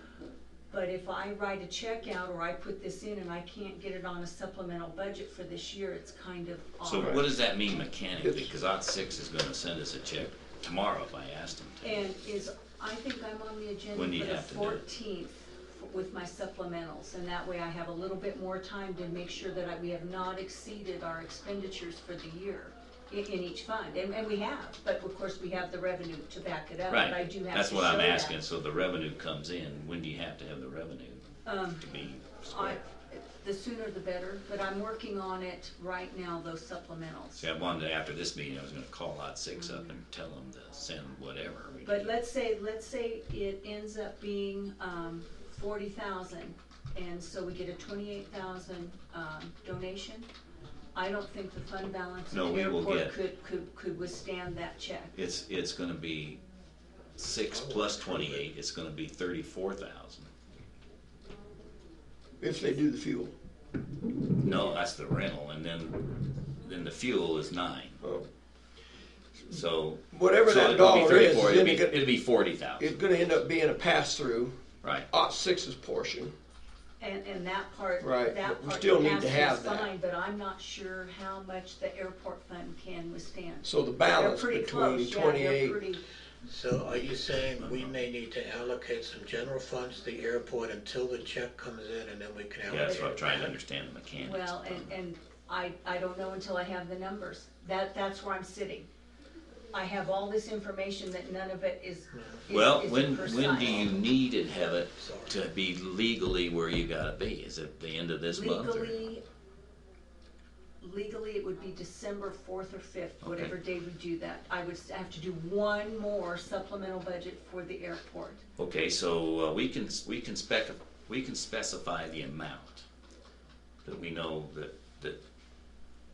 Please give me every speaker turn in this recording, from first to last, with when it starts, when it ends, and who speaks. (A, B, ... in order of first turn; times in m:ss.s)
0:00.7-0:07.3 A
0:06.8-0:12.0 B
0:08.2-0:08.5 C
0:11.8-0:28.4 A
0:14.0-0:14.8 B
0:26.9-0:31.2 B
0:31.4-0:31.9 A
0:31.8-0:32.8 B
0:32.5-0:37.5 A
0:37.4-0:42.1 B
0:39.6-0:39.9 A
0:41.8-0:50.3 A
0:51.0-0:55.1 A
0:52.3-0:53.1 B
0:55.1-0:56.4 B
0:57.2-1:00.3 B
0:57.5-0:58.4 D
1:02.4-1:03.3 C
1:04.4-1:06.0 B
1:06.6-1:08.0 B
1:08.0-1:08.3 C
1:09.4-1:13.0 B
1:10.1-1:12.0 C
1:12.8-1:14.6 C
1:15.1-1:16.3 C
1:17.0-1:26.0 A
1:18.0-1:19.9 C
1:23.6-1:25.8 C
1:26.5-1:33.5 D
1:27.6-1:28.0 B
1:32.7-1:35.0 B
1:32.8-1:33.1 A
1:34.2-1:38.9 A
1:39.7-1:44.0 A
1:42.1-1:42.4 D
1:42.5-1:49.0 B
1:43.6-1:44.0 D
1:44.8-1:45.3 D
1:48.3-1:49.2 A
1:50.8-1:58.4 A
1:53.2-1:53.5 B
1:58.6-2:02.8 B
2:03.8-2:05.2 B